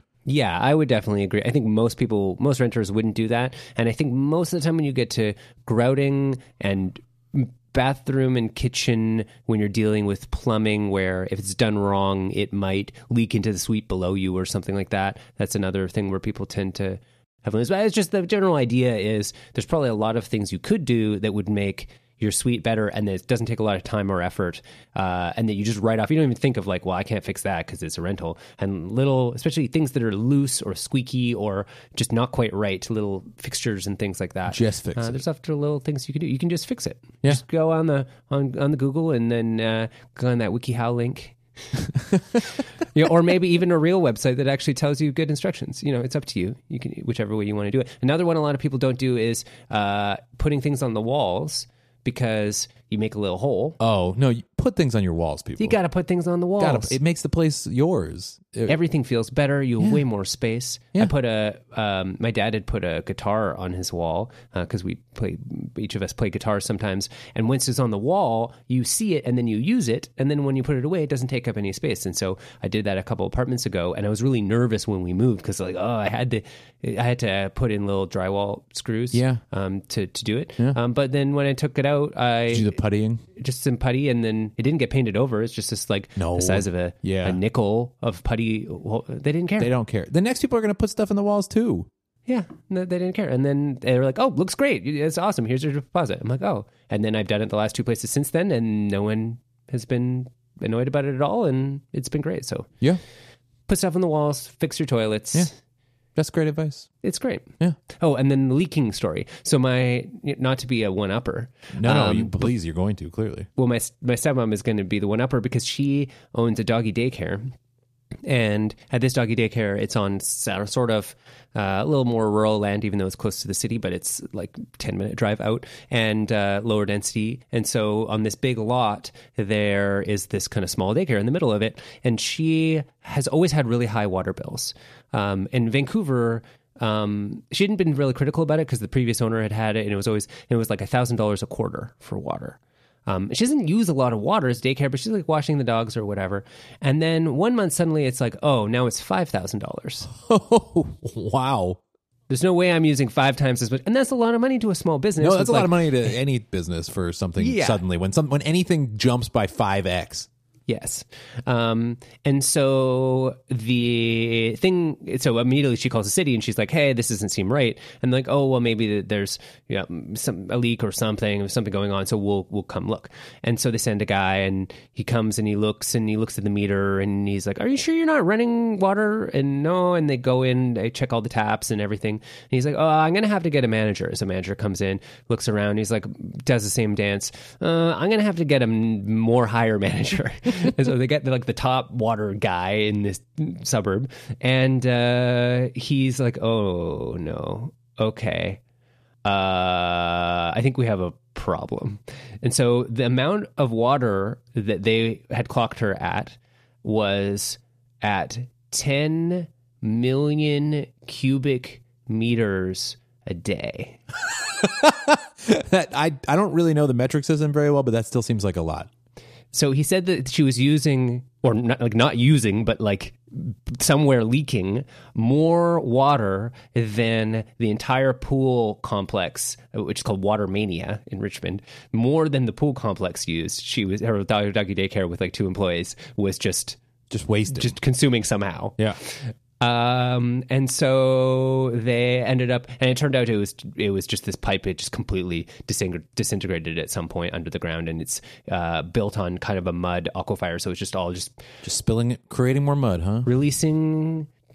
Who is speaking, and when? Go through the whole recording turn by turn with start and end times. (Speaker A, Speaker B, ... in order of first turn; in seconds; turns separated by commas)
Speaker A: 0.3-41.4, Speaker B: 34.5-35.2, Speaker B: 42.0-42.4, Speaker A: 42.9-53.8, Speaker B: 53.8-55.8, Speaker A: 55.6-57.0, Speaker B: 56.6-58.8, Speaker A: 58.7-82.8, Speaker B: 79.1-79.4, Speaker B: 82.5-83.2, Speaker A: 83.4-89.7, Speaker B: 86.2-87.4, Speaker B: 89.6-91.9, Speaker A: 92.3-102.7, Speaker A: 103.7-105.6, Speaker B: 106.2-106.9, Speaker A: 107.0-112.5, Speaker B: 111.8-113.5, Speaker A: 113.6-117.5, Speaker A: 118.2-150.1, Speaker B: 150.1-151.8, Speaker A: 152.3-156.1, Speaker B: 155.2-160.3, Speaker A: 157.4-157.8, Speaker A: 160.7-198.6, Speaker A: 199.2-214.0, Speaker B: 214.3-218.9, Speaker A: 219.5-236.8, Speaker B: 237.1-237.8, Speaker A: 237.5-251.4, Speaker B: 251.6-253.3, Speaker A: 253.2-254.3